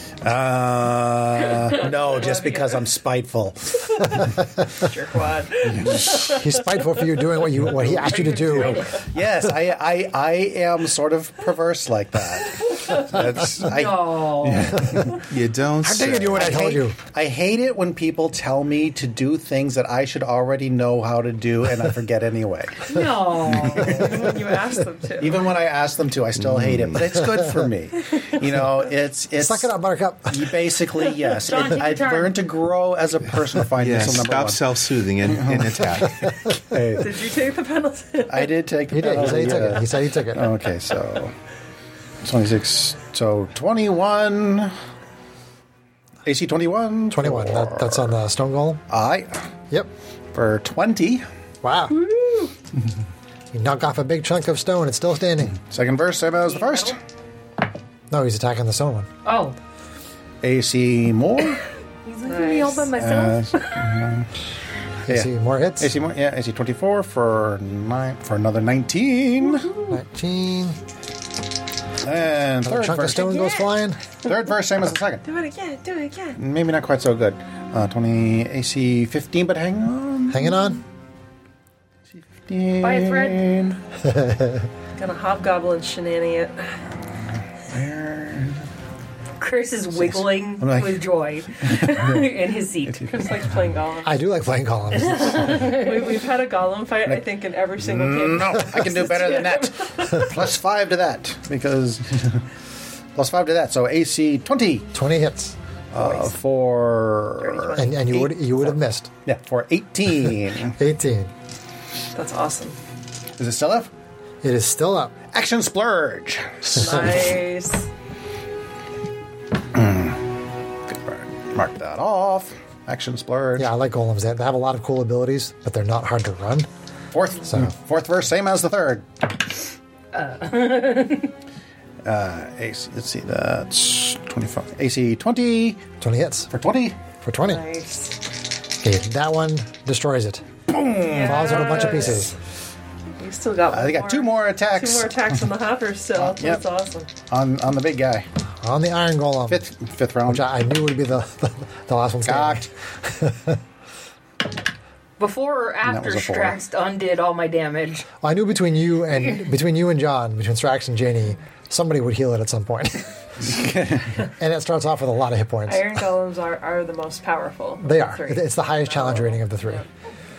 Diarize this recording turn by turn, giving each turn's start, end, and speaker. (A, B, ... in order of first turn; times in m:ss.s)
0:00.2-0:04.2 A
0:01.8-0:02.8 B
0:04.7-0:06.5 B
0:05.7-0:06.1 A
0:06.1-0:08.9 C
0:07.6-0:15.2 A
0:08.0-0:09.0 D
0:13.6-0:14.9 D
0:15.2-0:16.6 E
0:15.8-0:17.0 C
0:16.3-0:24.2 A
0:22.8-0:24.3 D
0:23.8-0:25.4 B
0:25.2-0:29.7 A
0:26.4-0:27.1 E
0:29.4-0:30.5 C
0:30.3-0:34.7 A
0:31.3-0:32.4 D
0:33.8-0:36.3 E
0:35.2-0:35.9 A
0:36.7-0:37.2 A
0:37.0-0:38.5 B
0:38.3-0:41.3 A
0:38.9-0:40.5 C
0:42.2-0:44.7 A
0:46.2-0:48.1 A
0:47.1-0:48.8 C
0:48.9-0:49.4 A
0:50.3-0:51.2 A
0:51.6-0:52.0 C
0:52.0-0:52.5 D
0:53.5-0:55.6 C
0:55.6-0:57.0 A
0:56.5-0:56.9 D
0:58.1-0:59.1 C
0:59.2-0:59.6 D
1:00.4-1:01.6 A
1:02.0-1:03.5 D
1:02.2-1:02.9 B
1:02.9-1:04.3 A
1:05.1-1:05.9 C
1:05.1-1:09.7 A
1:09.6-1:09.9 D
1:09.9-1:10.8 C
1:12.0-1:13.4 A
1:12.6-1:14.0 C
1:14.2-1:15.2 A
1:15.2-1:16.4 B
1:16.4-1:20.7 A
1:20.3-1:20.8 C
1:22.4-1:23.8 A
1:22.8-1:23.5 D
1:24.0-1:24.7 C
1:25.0-1:26.7 B
1:27.7-1:28.6 A
1:29.4-1:33.1 D
1:29.9-1:32.3 A
1:33.1-1:34.2 B
1:34.0-1:35.8 C
1:34.9-1:36.2 D
1:35.5-1:39.8 B
1:37.8-1:42.4 A
1:39.1-1:39.4 D
1:43.2-1:44.9 A
1:44.9-1:45.6 C
1:45.9-1:48.7 A
1:45.9-1:46.4 B
1:47.4-1:48.2 B
1:47.8-1:49.1 C
1:49.2-1:50.8 A
1:50.2-1:51.3 C
1:52.1-1:52.8 B
1:53.4-1:53.9 A
1:54.4-1:55.1 C
1:55.3-1:57.2 A
1:56.7-1:57.9 B
1:56.7-1:57.0 C
1:59.7-2:00.2 A
2:00.9-2:03.7 A
2:03.6-2:06.7 C
2:07.1-2:09.1 A
2:07.5-2:07.7 C
2:10.1-2:11.3 D
2:12.0-2:15.8 A
2:16.0-2:16.5 C
2:16.5-2:17.0 A
2:17.2-2:17.6 C
2:17.4-2:18.2 B
2:18.8-2:20.4 C
2:20.7-2:22.1 A
2:21.0-2:22.3 B
2:21.2-2:22.3 C
2:23.2-2:27.1 B
2:23.7-2:25.4 A
2:26.1-2:26.6 A
2:27.3-2:28.2 A
2:28.6-2:29.6 C
2:29.5-2:30.5 A
2:30.3-2:33.6 C
2:32.2-2:32.7 A
2:35.2-2:38.1 D
2:35.8-2:36.6 A
2:38.2-2:43.1 C
2:43.4-2:44.2 A
2:44.4-2:46.0 C
2:45.7-2:49.8 B
2:47.8-2:49.8 C